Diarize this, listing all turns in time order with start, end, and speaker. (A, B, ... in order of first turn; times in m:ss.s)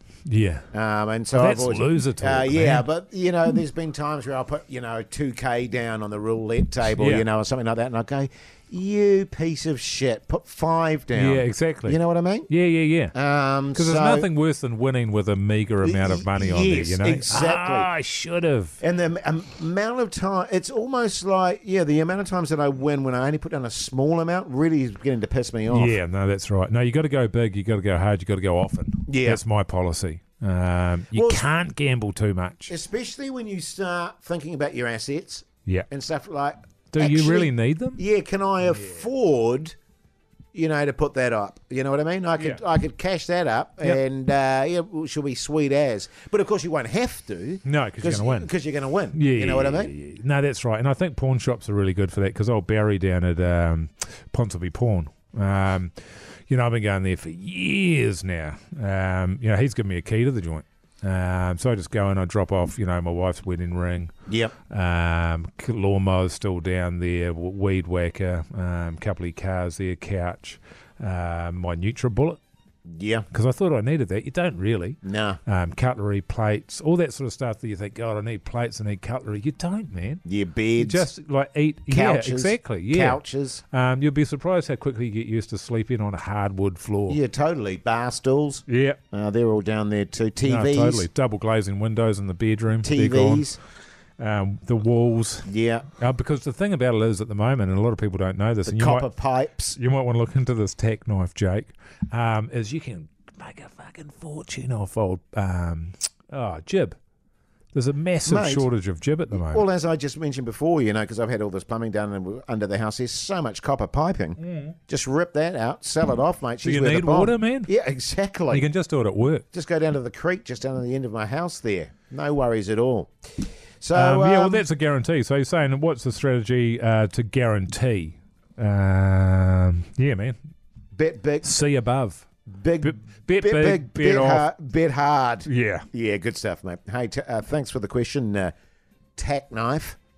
0:00.3-0:00.7 A
0:00.7-0:12.5 B
0:01.3-0:02.9 A
0:06.9-0:07.2 A
0:11.1-0:13.2 A
0:13.1-0:14.3 B
0:13.7-0:18.8 A
0:15.8-0:17.9 B
0:18.8-0:26.0 B
0:25.7-0:32.7 A
0:29.1-0:29.4 B
0:31.1-0:31.5 B
0:32.7-0:39.8 B
0:36.9-0:38.0 A
0:40.5-0:49.9 B
0:42.4-0:42.6 A
0:47.6-0:48.5 A
0:49.1-1:04.1 A
1:04.3-1:04.5 B
1:04.7-1:12.4 A
1:12.9-1:13.3 B
1:13.3-1:20.2 A
1:15.0-1:15.4 B
1:20.2-1:21.1 B
1:20.8-1:27.2 A
1:21.9-1:23.6 B
1:27.1-1:31.1 B
1:28.7-1:29.0 A
1:30.4-1:33.5 A
1:32.8-1:33.6 B
1:34.2-1:39.1 A
1:35.5-1:35.9 B
1:38.6-1:39.8 B
1:39.8-1:47.0 A
1:47.7-1:49.6 A
1:48.3-1:48.7 B
1:49.3-1:58.7 B
1:54.4-1:54.8 A
1:56.6-1:57.7 A
1:58.5-1:59.5 A
1:59.5-2:04.7 B
2:03.9-2:10.4 A
2:11.0-2:11.5 B
2:11.4-2:12.3 A
2:12.5-2:18.5 B
2:12.8-2:14.5 A
2:15.4-2:15.9 A
2:19.2-2:20.0 B